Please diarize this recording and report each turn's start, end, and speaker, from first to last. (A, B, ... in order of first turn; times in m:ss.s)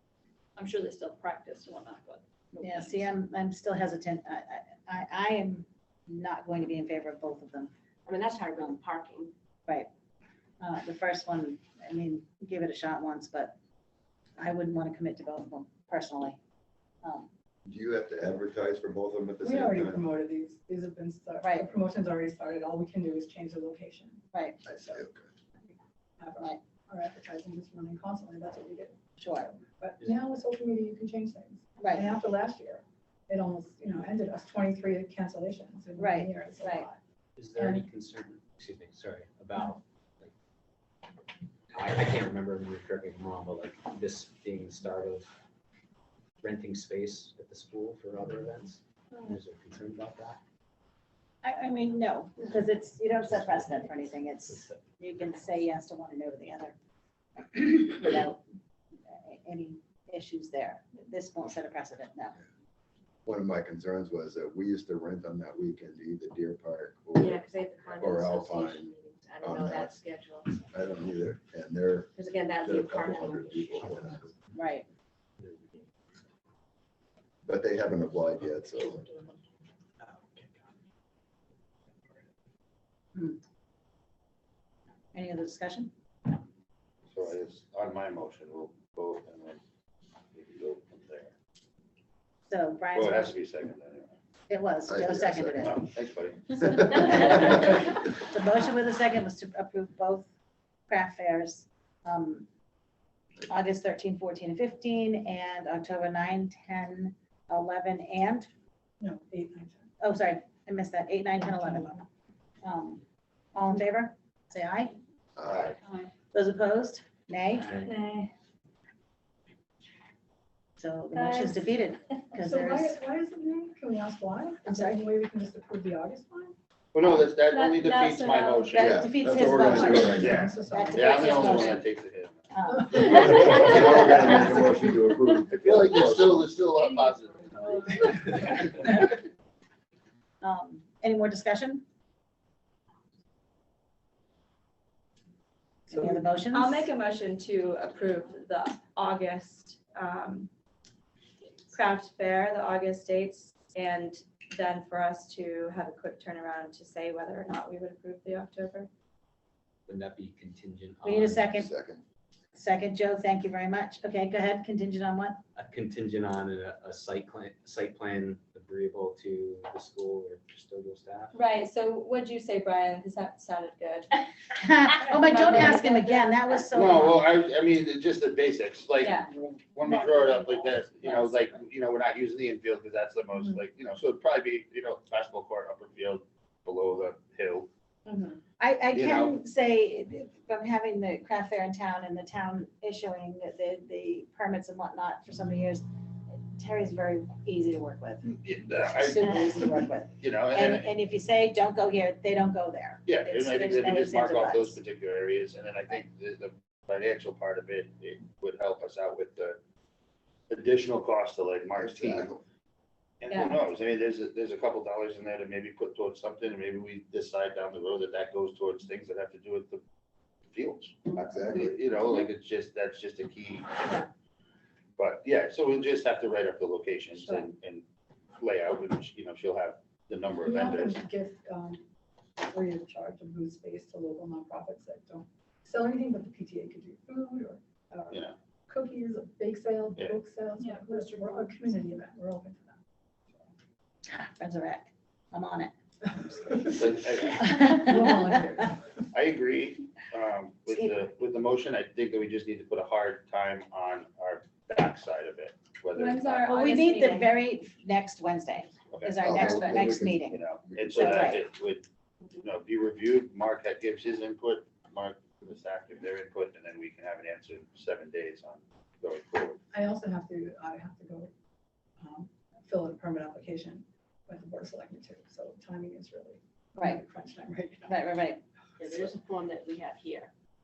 0:00.6-0:03.0 A
0:02.6-0:07.7 B
0:08.0-0:09.3 C
0:10.6-0:13.5 B
0:14.4-0:16.4 B
0:17.0-0:17.3 B
0:17.6-0:20.0 D
0:19.4-0:24.2 E
0:21.4-0:21.7 B
0:24.3-0:24.6 B
0:24.6-0:25.3 D
0:26.2-0:29.0 E
0:29.2-0:29.6 B
0:29.7-0:37.0 E
0:31.8-0:32.1 B
0:36.0-0:36.9 B
0:37.4-0:40.3 F
0:37.6-0:37.8 E
0:41.7-0:45.3 F
0:46.4-0:50.4 F
0:51.4-0:56.8 B
0:57.5-0:58.4 B
0:59.1-1:02.4 B
1:03.2-1:07.4 D
1:07.1-1:10.7 C
1:08.0-1:08.9 D
1:09.4-1:10.0 D
1:10.7-1:14.3 D
1:12.2-1:14.1 C
1:14.5-1:14.9 B
1:17.4-1:19.0 D
1:20.1-1:20.4 F
1:25.1-1:25.9 B
1:27.1-1:29.6 G
1:30.3-1:31.3 G
1:32.5-1:33.3 B
1:32.9-1:34.2 G
1:34.5-1:35.8 B
1:34.9-1:35.7 D
1:35.6-1:36.6 G
1:36.6-1:40.3 B
1:40.9-1:42.5 B
1:43.5-1:48.5 B
1:49.0-1:49.9 E
1:50.0-1:52.0 B
1:51.3-1:52.0 E
1:52.6-1:53.0 B
1:53.5-1:55.0 B
1:55.4-1:55.8 D
1:55.8-1:56.1 H
1:56.3-1:57.7 B
1:57.6-1:57.9 F
1:57.8-1:58.3 H
2:00.8-2:03.0 B
2:01.1-2:01.6 H
2:02.4-2:06.5 E
2:04.6-2:05.0 B
2:06.9-2:09.1 G
2:07.5-2:08.8 H
2:08.7-2:11.8 B
2:08.7-2:10.4 D
2:09.6-2:11.7 E
2:10.2-2:12.4 G
2:12.5-2:14.9 B
2:12.7-2:13.0 E
2:12.9-2:16.5 D
2:15.5-2:17.6 G
2:20.4-2:21.8 B
2:25.9-2:26.9 B
2:26.5-2:30.5 H
2:31.7-2:38.9 H
2:39.9-2:41.6 F
2:41.0-2:41.7 B
2:41.6-2:42.0 D
2:42.5-2:45.4 B
2:45.5-2:51.3 F
2:51.3-2:54.1 H
2:54.6-2:57.2 B
2:55.0-2:56.6 H
2:56.7-3:07.7 G
2:59.0-2:59.3 H
3:08.6-3:24.8 B
3:08.9-3:09.3 G
3:18.2-3:19.5 G
3:20.2-3:20.9 G
3:23.0-3:29.6 G
3:30.5-3:32.3 G
3:31.8-3:32.4 D
3:33.2-3:39.8 G
3:33.3-3:33.6 H
3:40.5-3:44.0 G
3:41.1-3:41.8 D
3:45.0-3:47.8 G
3:48.4-3:51.0 G
3:50.4-3:51.8 E
3:52.4-4:02.8 E
4:00.6-4:01.2 H
4:04.1-4:05.7 B
4:06.3-4:08.7 E
4:06.3-4:06.7 B
4:06.7-4:07.6 G
4:07.4-4:08.6 B
4:09.1-4:16.5 G
4:10.7-4:11.0 B
4:15.9-4:17.4 H
4:16.4-4:20.4 B
4:18.9-4:19.5 G
4:19.2-4:21.3 D
4:20.2-4:29.6 G
4:20.9-4:21.4 B
4:29.7-4:31.3 E
4:32.0-4:38.1 E
4:36.8-4:37.0 B
4:37.8-4:38.4 B
4:38.8-4:40.3 C